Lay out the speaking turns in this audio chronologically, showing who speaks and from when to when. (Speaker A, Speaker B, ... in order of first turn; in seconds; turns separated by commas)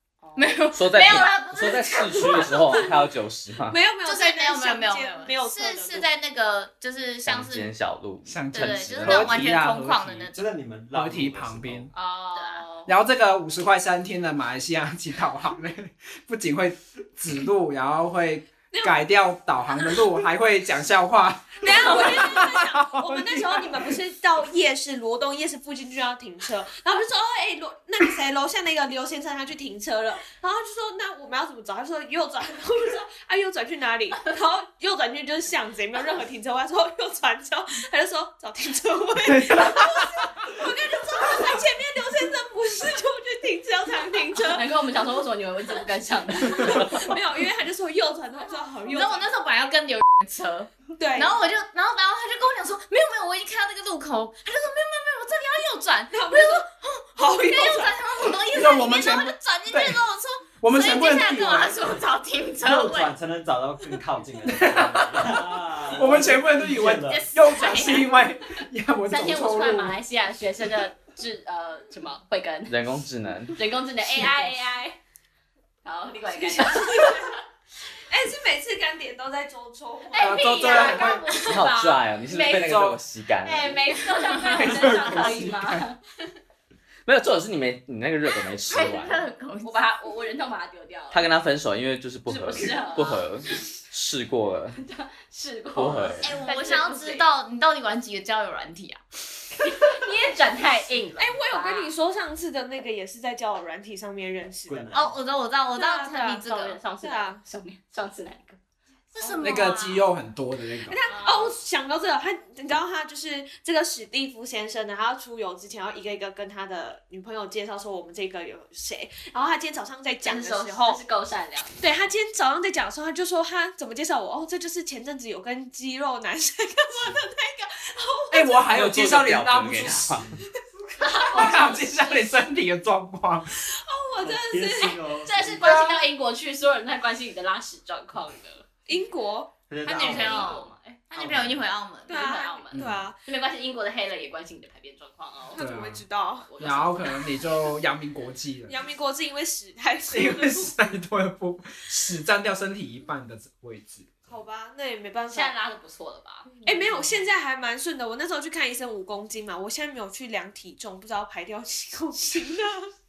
Speaker A: 0.2-0.6, Speaker B: 0.3-2.9, Speaker C: 0.7-3.8, Speaker D: 2.2-3.1, Speaker D: 3.7-6.1, Speaker B: 4.0-7.7, Speaker C: 7.3-9.3, Speaker E: 8.3-10.3, Speaker B: 8.5-10.4, Speaker F: 10.3-11.9, Speaker E: 10.9-11.9, Speaker B: 11.9-12.7, Speaker A: 12.3-12.9, Speaker E: 12.9-23.9, Speaker D: 18.7-19.1, Speaker D: 21.6-44.7, Speaker E: 39.2-40.1, Speaker A: 44.4-47.1, Speaker D: 46.5-49.3, Speaker B: 48.9-63.1, Speaker D: 51.0-51.4, Speaker D: 56.1-56.6, Speaker D: 57.2-58.2, Speaker E: 58.5-60.0, Speaker E: 60.6-62.0, Speaker F: 62.6-67.4, Speaker E: 64.4-70.0, Speaker B: 67.1-68.2, Speaker A: 69.1-72.8, Speaker C: 72.7-73.5, Speaker A: 73.6-75.0, Speaker A: 75.8-77.3, Speaker D: 76.4-77.4, Speaker D: 78.1-81.1, Speaker A: 80.1-82.9, Speaker E: 80.2-81.2, Speaker C: 81.5-83.8, Speaker E: 82.5-83.0, Speaker A: 83.4-86.0, Speaker E: 84.5-85.9, Speaker C: 87.1-89.2, Speaker B: 88.7-89.8, Speaker A: 89.6-91.3, Speaker C: 91.1-94.8, Speaker A: 92.3-93.2, Speaker A: 94.8-97.3, Speaker C: 95.8-96.4, Speaker B: 96.2-99.0, Speaker A: 99.6-101.9, Speaker D: 101.2-105.0, Speaker F: 104.7-105.2, Speaker B: 104.9-106.8, Speaker D: 105.7-107.4, Speaker A: 106.3-108.6, Speaker B: 109.1-110.0, Speaker E: 109.4-111.0, Speaker D: 110.8-121.0, Speaker A: 111.1-111.5, Speaker A: 120.2-121.9, Speaker D: 121.8-128.9, Speaker E: 128.3-130.3, Speaker C: 128.7-130.3, Speaker A: 131.0-132.1, Speaker E: 131.3-133.5, Speaker D: 133.6-135.0, Speaker F: 134.2-135.8, Speaker A: 135.2-138.7, Speaker D: 138.9-139.6, Speaker F: 139.7-140.5, Speaker B: 139.8-142.4, Speaker A: 139.9-141.0, Speaker F: 141.2-141.6, Speaker D: 142.1-143.2, Speaker A: 142.1-145.6, Speaker E: 142.7-143.1, Speaker D: 145.5-146.5, Speaker E: 145.6-146.1, Speaker A: 146.5-147.2, Speaker E: 146.6-148.8, Speaker D: 148.7-150.7, Speaker E: 150.1-154.2, Speaker D: 154.3-155.5, Speaker A: 155.3-156.5, Speaker D: 156.6-162.9